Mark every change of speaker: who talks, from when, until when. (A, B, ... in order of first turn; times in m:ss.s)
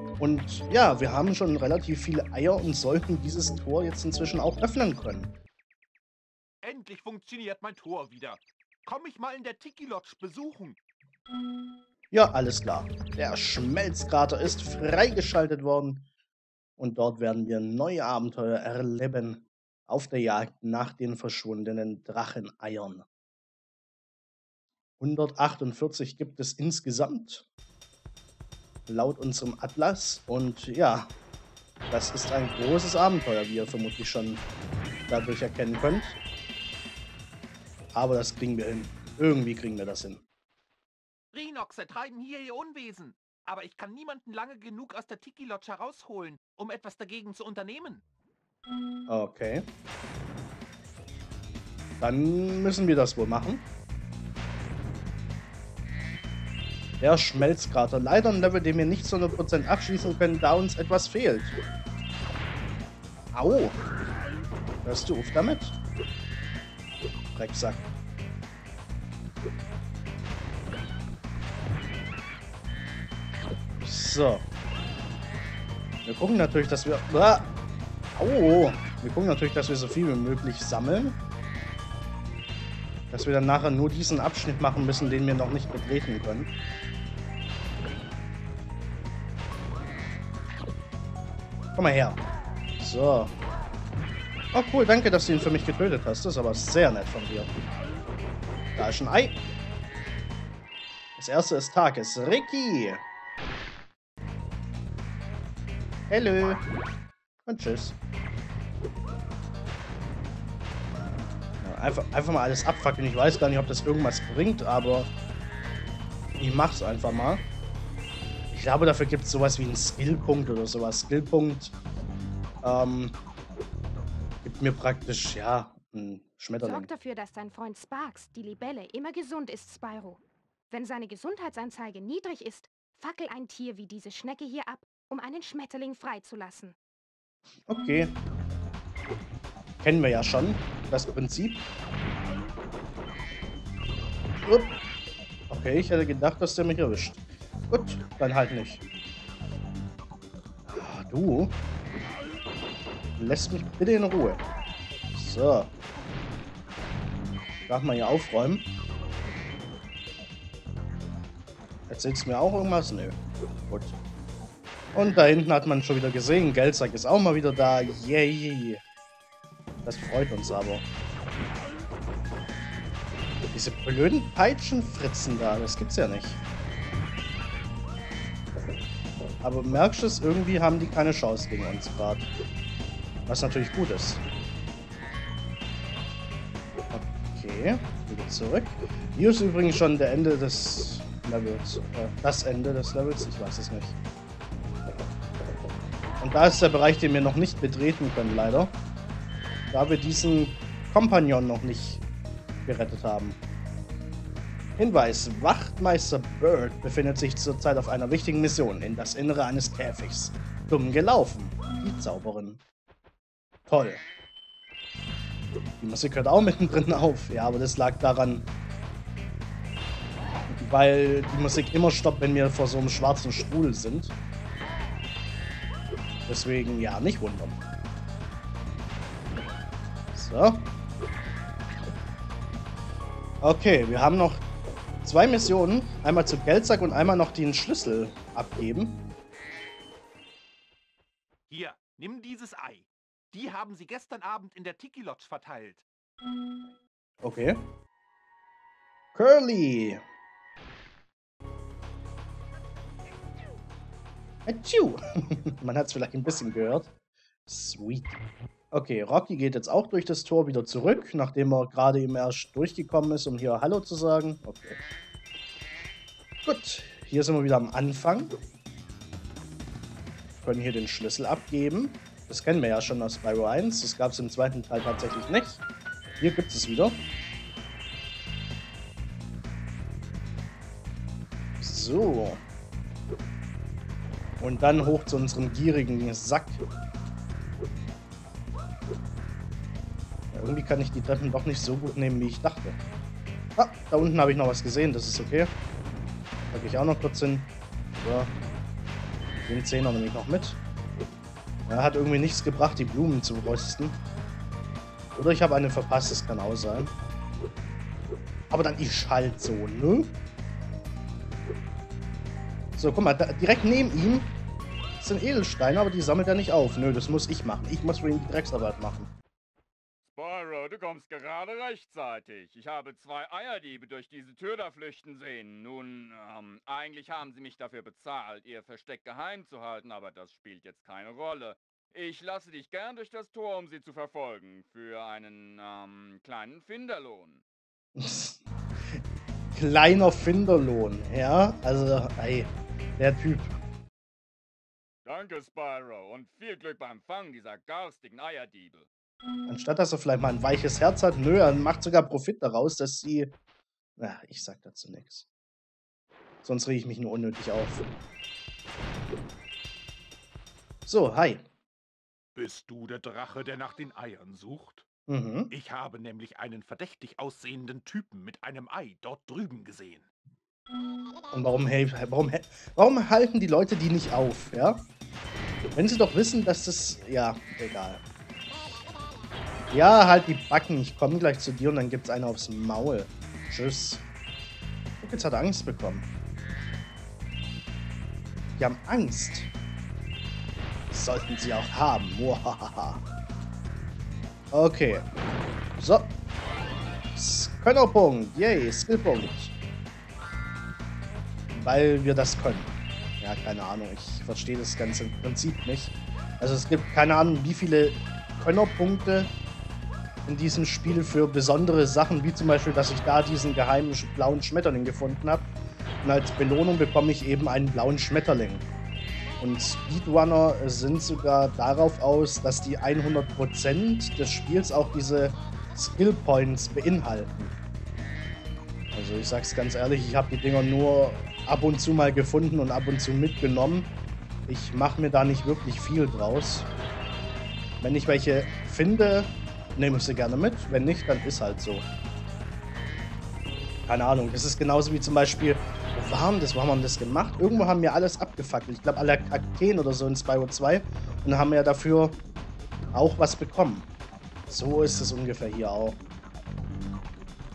0:00.2-0:05.3 A
0:06.6-0:10.8 B
0:12.1-0:16.0 A
0:16.8-0:23.1 A
0:25.0-0:27.4 A
0:28.9-0:31.1 A
0:31.9-0:34.5 A
0:35.1-0:36.2 A
0:37.9-0:40.2 A
0:41.3-0:48.0 B
0:49.1-0:49.7 A
0:52.0-0:53.7 A
0:57.0-1:01.6 A
1:03.3-1:03.8 A
1:04.8-1:05.8 A
1:07.4-1:07.9 A
1:13.8-1:14.4 A
1:16.0-1:17.5 A
1:18.2-1:21.2 A
1:23.1-1:26.5 A
1:31.8-1:32.2 A
1:32.8-1:33.3 A
1:34.5-1:37.5 A
1:38.8-1:39.4 A
1:41.2-1:43.0 A
1:46.1-1:46.6 A
1:47.5-1:48.0 A
1:51.6-1:55.1 A
1:56.4-1:57.5 A
1:58.5-2:01.7 A
2:02.6-2:03.2 A
2:04.4-2:06.9 A
2:06.6-2:16.8 C
2:17.7-2:18.2 A
2:19.8-2:21.7 A
2:24.4-2:24.8 A
2:25.5-2:28.8 A
2:30.7-2:31.6 A
2:33.2-2:34.4 A
2:35.1-2:35.7 A
2:37.7-2:38.7 A
2:41.9-2:44.0 A
2:44.9-2:48.8 A
2:49.8-2:50.9 A
2:53.5-2:56.4 A
2:59.4-3:02.3 A
3:03.3-3:04.2 A
3:06.9-3:14.0 A
3:16.2-3:18.8 A
3:19.7-3:22.0 A
3:22.6-3:23.4 A
3:24.8-3:32.6 A
3:33.7-3:34.0 A
3:35.8-3:38.5 A
3:40.5-3:44.2 A
3:46.3-3:47.6 A
3:50.1-3:50.7 A
3:53.4-3:54.4 A
3:55.0-3:59.0 A
4:01.5-4:05.8 B
4:07.2-4:07.7 A
4:09.2-4:10.0 A
4:14.5-4:16.9 A
4:17.5-4:18.2 A
4:18.7-4:24.8 A
4:26.4-4:28.4 A
4:30.4-4:35.6 A
4:36.2-4:37.0 A
4:41.6-4:42.4 A
4:44.4-4:46.6 A
4:50.3-4:52.8 A
4:53.6-4:55.5 A
4:56.5-4:58.3 A
4:59.5-5:00.6 A
5:01.7-5:04.0 A
5:05.2-5:07.0 A
5:08.5-5:10.2 A
5:12.8-5:14.4 A
5:15.0-5:19.1 A
5:20.0-5:37.4 D
5:38.0-5:39.0 A
5:39.6-5:43.6 A
5:45.0-5:48.9 D
5:49.5-5:53.4 A
5:54.0-5:55.2 A
5:56.4-5:57.9 A
6:00.9-6:01.5 A
6:02.4-6:04.9 B
6:05.1-6:05.5 A
6:05.5-6:10.1 B
6:11.3-6:14.9 A
6:15.7-6:18.0 A
6:19.7-6:24.0 A
6:25.0-6:26.1 A
6:28.6-6:29.5 A
6:30.9-6:33.0 A
6:34.5-6:35.1 A
6:35.8-6:36.1 A
6:37.2-6:39.5 A
6:41.5-6:49.3 A
6:50.2-6:55.5 A
6:56.0-6:58.6 A
6:59.4-7:07.5 A
7:08.9-7:13.9 A
7:14.5-7:16.7 A
7:17.8-7:21.9 A
7:23.9-7:32.2 A
7:32.9-7:33.9 A
7:34.5-7:36.0 A